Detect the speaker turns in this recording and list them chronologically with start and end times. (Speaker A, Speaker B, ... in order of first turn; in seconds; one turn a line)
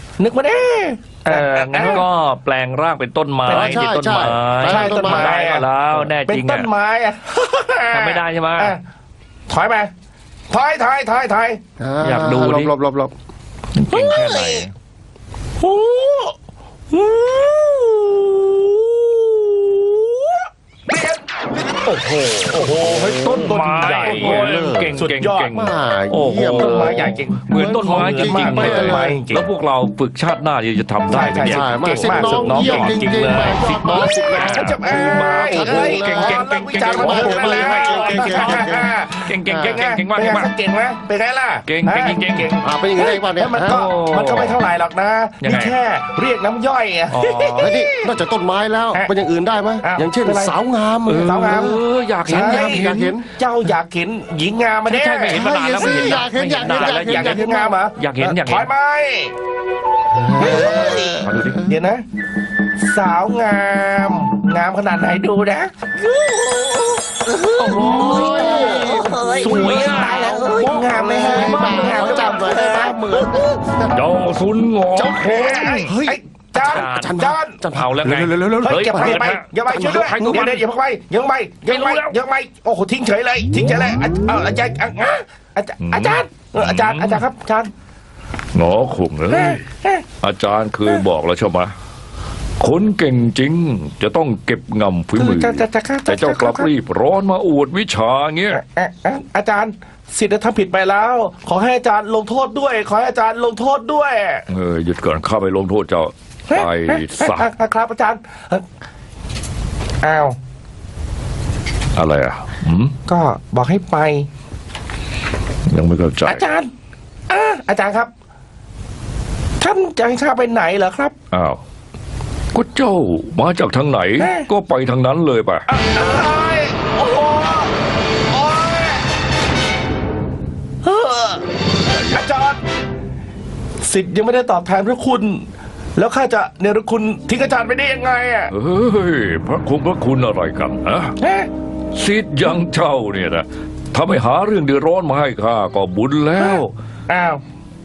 Speaker A: 0.2-2.0
Speaker B: 1.2-6.7
Speaker A: 3.4-3.9
Speaker C: 3.5-5.4
Speaker A: 4.6-8.8
Speaker B: 7.9-8.7
Speaker A: 9.5-9.9
Speaker A: 10.5-11.6
Speaker C: 11.8-13.1
Speaker B: 12.0-12.7
Speaker B: 13.7-14.7
Speaker A: 13.9-14.7
Speaker A: 15.6-16.3
Speaker A: 16.9-25.5
Speaker B: 21.9-40.5
Speaker C: 24.0-24.9
Speaker C: 25.5-29.1
Speaker A: 26.5-29.5
Speaker A: 31.1-33.1
Speaker C: 31.4-38.9
Speaker A: 34.3-48.1
Speaker C: 39.4-39.8
Speaker B: 41.7-42.5
Speaker C: 42.6-43.8
Speaker B: 43.6-44.6
Speaker B: 45.4-45.8
Speaker B: 47.1-47.8
Speaker C: 47.6-53.2
Speaker A: 49.8-59.3
Speaker B: 51.1-53.2
Speaker B: 54.9-58.7
Speaker C: 55.3-57.8
Speaker C: 60.1-61.7
Speaker A: 60.4-62.0
Speaker D: 60.4-61.2
Speaker B: 61.2-61.6
Speaker A: 62.8-65.7
Speaker D: 66.0-73.5
Speaker B: 67.6-70.3
Speaker A: 67.7-73.2
Speaker C: 67.8-69.3
Speaker C: 70.8-74.0
Speaker B: 74.0-75.8
Speaker D: 74.2-75.8
Speaker C: 74.9-80.5
Speaker A: 75.1-77.6
Speaker B: 76.5-80.6
Speaker A: 78.6-87.7
Speaker B: 81.7-82.2
Speaker D: 85.8-87.2
Speaker D: 88.5-89.6
Speaker A: 89.3-90.0
Speaker D: 90.2-91.7
Speaker D: 92.6-98.6
Speaker A: 95.2-96.7
Speaker A: 98.5-104.5
Speaker D: 104.5-107.5
Speaker A: 106.5-108.6
Speaker A: 110.0-110.3
Speaker D: 112.0-112.9
Speaker A: 113.0-114.3
Speaker D: 115.7-116.4
Speaker A: 116.2-116.7
Speaker A: 117.3-118.1
Speaker A: 119.6-121.1
Speaker D: 121.3-121.6
Speaker D: 122.5-125.6
Speaker A: 124.2-124.5
Speaker A: 125.7-127.7
Speaker A: 128.3-129.0
Speaker A: 130.8-131.4
Speaker A: 132.0-132.6
Speaker A: 133.8-138.5
Speaker D: 138.5-141.1
Speaker A: 141.2-141.5
Speaker D: 141.9-146.6
Speaker B: 144.1-144.8
Speaker B: 145.3-145.9
Speaker A: 146.4-147.4